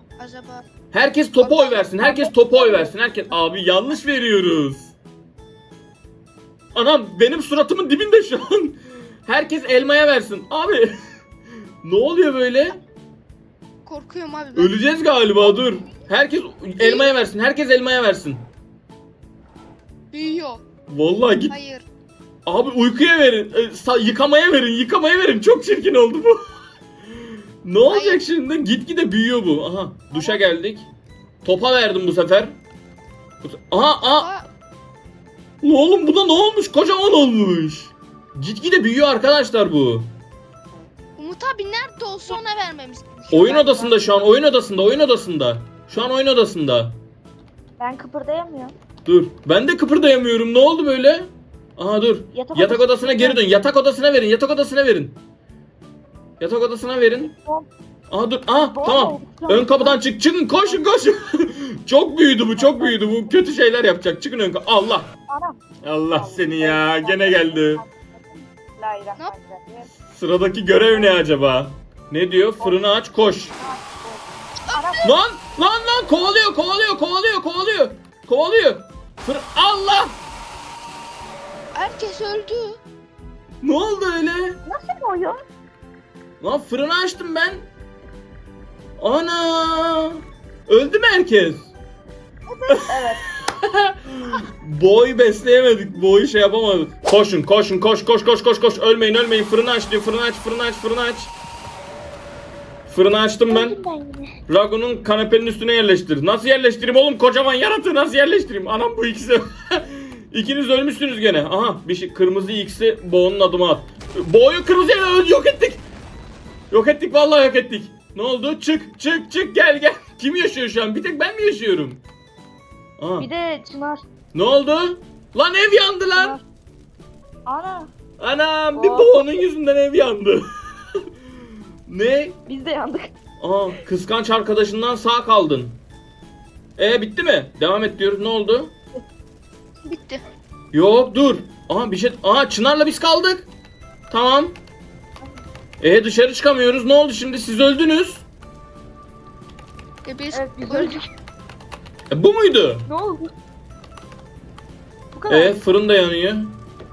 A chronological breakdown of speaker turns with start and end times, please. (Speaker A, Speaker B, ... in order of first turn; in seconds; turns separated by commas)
Speaker A: 0.2-0.6, Speaker B: 0.9-4.9, Speaker A: 1.4-2.2, Speaker C: 2.0-2.9, Speaker B: 6.7-10.9, Speaker B: 11.8-12.8, Speaker A: 13.8-14.8, Speaker B: 14.6-18.4, Speaker A: 16.8-17.1, Speaker A: 20.1-20.6, Speaker B: 20.9-21.5, Speaker A: 21.5-21.9, Speaker B: 22.5-26.4, Speaker B: 27.6-30.9, Speaker A: 27.9-28.2, Speaker A: 30.1-30.4, Speaker B: 31.4-32.6, Speaker B: 33.4-34.3, Speaker A: 34.1-34.5, Speaker B: 35.6-40.1, Speaker A: 41.1-44.0, Speaker B: 43.3-47.0, Speaker C: 47.8-48.7, Speaker B: 49.1-55.2, Speaker C: 52.3-53.4, Speaker B: 56.4-57.3, Speaker C: 57.2-57.7, Speaker B: 58.1-65.1, Speaker C: 58.5-60.0, Speaker C: 62.6-63.4, Speaker C: 65.3-65.6, Speaker B: 65.8-67.8, Speaker C: 66.1-69.9, Speaker B: 70.1-73.6, Speaker C: 70.9-71.2, Speaker C: 72.6-75.1, Speaker A: 74.7-75.2, Speaker B: 75.0-80.2, Speaker A: 81.7-82.8, Speaker B: 83.6-84.6, Speaker C: 84.7-85.4, Speaker B: 86.4-87.7, Speaker B: 89.0-91.7, Speaker C: 92.5-93.2, Speaker B: 92.7-101.3, Speaker B: 102.9-103.8, Speaker C: 103.5-104.3, Speaker B: 104.5-115.8, Speaker B: 116.7-122.0, Speaker B: 123.0-123.3, Speaker C: 123.2-124.0, Speaker B: 124.3-126.4, Speaker C: 126.2-126.4, Speaker C: 127.5-127.9, Speaker B: 128.2-130.5, Speaker C: 128.8-129.4, Speaker B: 131.9-132.4, Speaker C: 132.5-133.1, Speaker B: 133.4-135.8, Speaker B: 136.8-138.7, Speaker A: 139.8-140.2, Speaker B: 140.7-143.5, Speaker B: 144.1-144.6, Speaker B: 145.8-148.2, Speaker A: 150.1-151.0, Speaker C: 150.3-151.0, Speaker B: 152.1-152.9, Speaker C: 152.9-153.3, Speaker C: 155.2-155.6, Speaker B: 155.3-156.5